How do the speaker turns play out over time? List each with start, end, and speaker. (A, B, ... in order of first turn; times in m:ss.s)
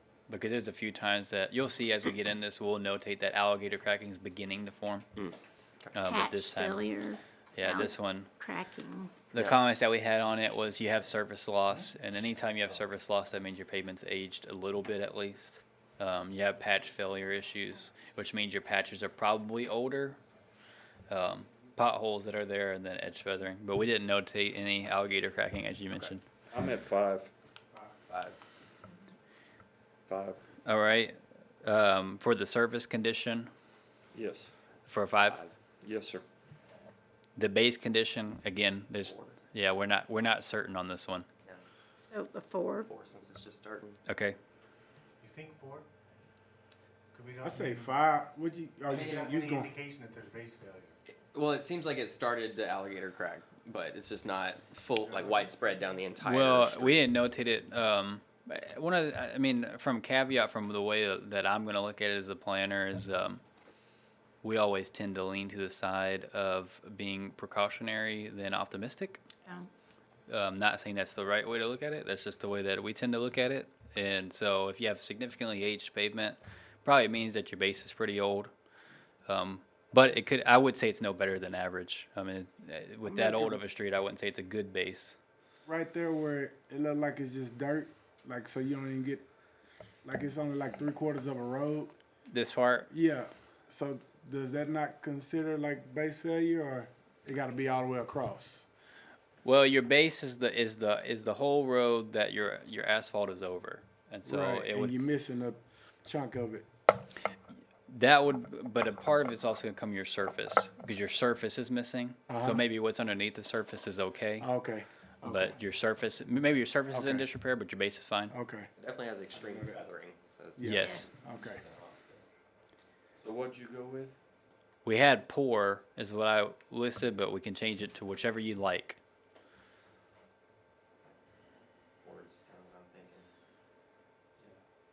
0:00.3-0:05.1 A
0:05.2-0:06.0 B
0:05.9-0:07.0 A
0:06.0-0:09.1 C
0:07.6-0:08.3 A
0:09.3-0:20.2 A
0:09.3-0:09.6 B
0:21.1-0:26.2 A
0:26.5-0:27.3 D
0:28.1-0:28.4 B
0:30.1-0:30.4 D
0:30.7-0:33.5 A
0:34.1-0:34.5 D
0:34.9-0:35.4 A
0:35.3-0:35.6 B
0:35.8-0:36.2 D
0:37.4-0:41.3 A
0:38.9-0:39.4 B
0:42.0-0:42.9 C
0:42.8-0:44.0 B
0:44.1-0:44.4 A
0:45.2-0:45.9 E
0:47.1-0:48.0 E
0:47.4-0:49.8 F
0:48.9-0:51.0 E
0:48.9-0:49.5 B
0:51.3-0:57.1 B
0:56.2-1:03.4 A
1:04.4-1:09.2 A
1:10.3-1:18.5 A
1:19.3-1:25.2 A
1:23.1-1:23.6 F
1:25.7-1:29.2 F
1:30.0-1:31.9 F
1:32.3-1:32.9 A
1:32.9-1:38.6 F
1:39.4-1:45.0 A
1:44.2-1:46.7 F
1:47.9-1:54.5 A
1:52.3-1:52.6 F
1:54.4-1:55.6 F
1:55.2-1:58.3 A
1:56.9-1:57.3 F
1:58.3-1:58.7 F
1:58.8-2:02.3 B
1:59.4-1:59.8 F
2:00.6-2:01.6 F
2:00.6-2:01.1 A
2:00.7-2:01.1 C
2:03.2-2:04.2 D
2:04.8-2:09.0 A
2:12.0-2:13.3 B